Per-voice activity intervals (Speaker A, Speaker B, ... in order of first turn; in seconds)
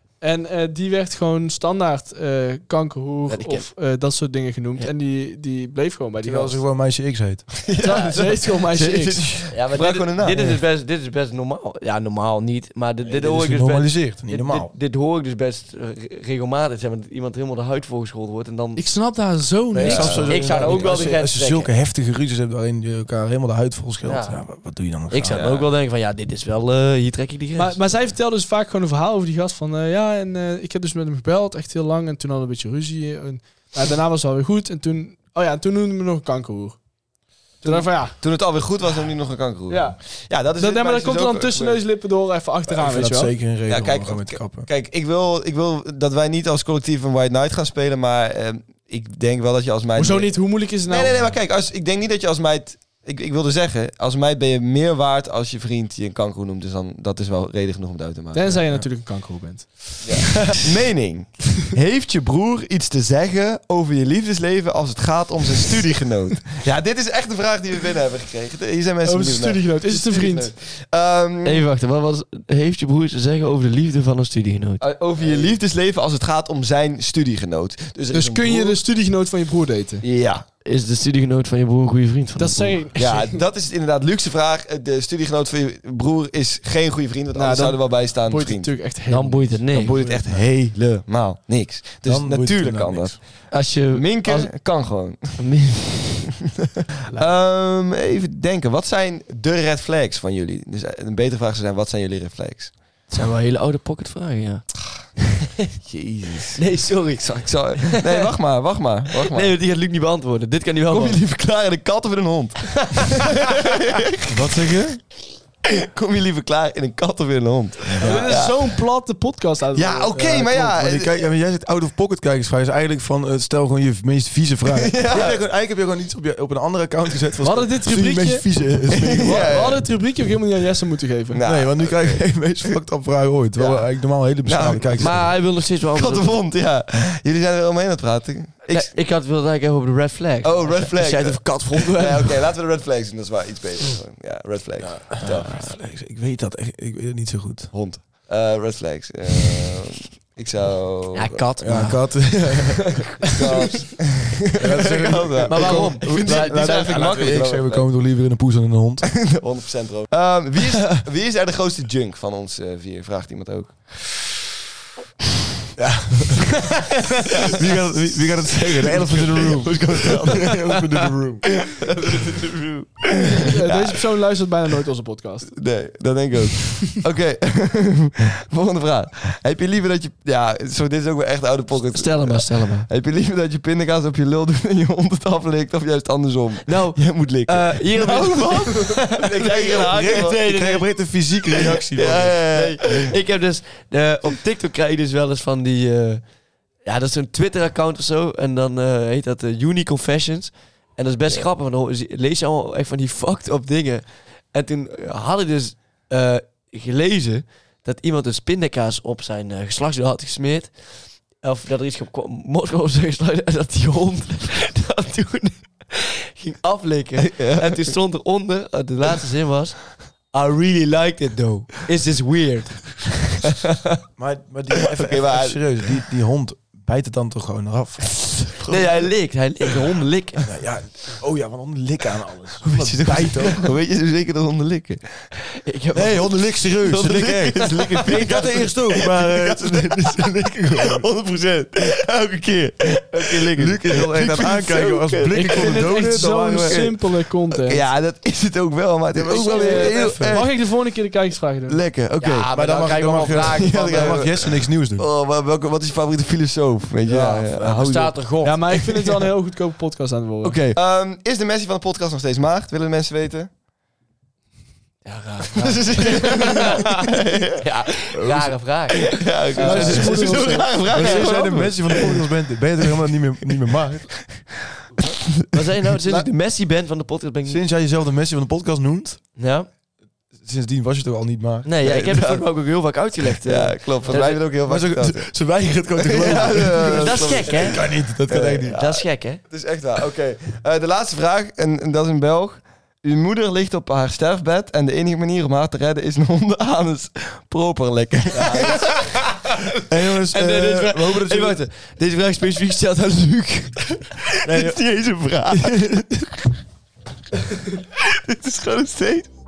Speaker A: 0.2-6.6, 7.8-9.5, 18.8-21.0, 27.6-36.8, 37.6-38.2, 39.7-40.0, 40.6-43.4, 50.0-51.3, 58.3-60.5, 69.0-70.5, 78.1-80.0, 82.4-83.4, 87.3-90.2, 118.0-120.2, 127.4-128.5, 129.2-131.4, 173.4-175.5, 245.3-247.8, 249.3-251.8, 258.3-260.6, 269.6-270.9
Speaker B: 3.3-3.7, 9.5-18.8, 19.9-21.7, 24.1-24.4, 25.1-27.9, 71.4-75.5, 80.7-82.8, 89.1-90.1, 93.5-94.6, 95.4-96.2, 103.1-104.7, 106.6-108.3, 109.2-111.2, 112.8-113.1, 135.0-136.4, 138.7-142.5, 145.2-145.6, 151.2-152.6, 153.2-153.8, 155.5-157.5, 181.9-182.9, 186.7-190.9, 192.1-196.2, 196.8-210.8, 211.4-223.5, 228.7-230.4, 232.8-233.5, 235.6-236.3, 252.2-254.4, 257.1-258.6, 265.1-267.0, 267.6-272.0, 275.5-277.6, 279.4-279.7, 281.6-284.4, 286.2-288.0, 288.7-289.4, 298.4-299.3, 300.3-304.8
Speaker C: 6.2-7.7, 13.1-14.7, 19.7-25.6, 42.7-44.7, 92.0-93.2, 114.3-115.0, 118.0-118.3, 120.1-129.5, 131.4-135.2, 144.8-147.7, 151.6-153.2, 154.6-159.2, 165.8-166.7, 167.4-171.6, 189.4-192.9, 224.2-228.5, 230.4-233.7, 235.9-241.1, 243.5-246.9, 249.2-250.4, 252.5-255.1, 257.2-257.7, 268.2-268.6, 269.6-274.4, 277.5-279.2, 280.4-281.7, 284.6-288.8, 299.9-301.6, 305.5-306.1
Speaker D: 7.7-10.6, 19.8-20.6, 37.6-41.8, 43.6-58.9, 60.0-71.7, 74.8-78.8, 80.0-80.5, 83.0-88.8, 89.7-95.4, 97.1-102.7, 105.8-106.6, 107.2-109.5, 110.9-114.3, 115.7-118.8, 119.8-121.1, 124.7-125.4, 128.9-129.8, 131.3-132.3, 133.6-133.9, 134.4-138.9, 140.4-145.7, 147.7-151.4, 153.2-157.9, 159.2-164.1, 168.6-170.7, 171.6-174.0, 175.5-190.4, 191.9-193.1, 217.2-217.9, 224.9-225.8, 228.6-228.8, 232.8-235.3, 236.9-250.7, 251.7-252.5, 253.3-259.1, 260.4-263.5, 265.6-267.6, 268.9-272.2, 281.8-282.4, 283.4-285.3, 286.0-299.2, 304.5-305.8, 307.9-309.3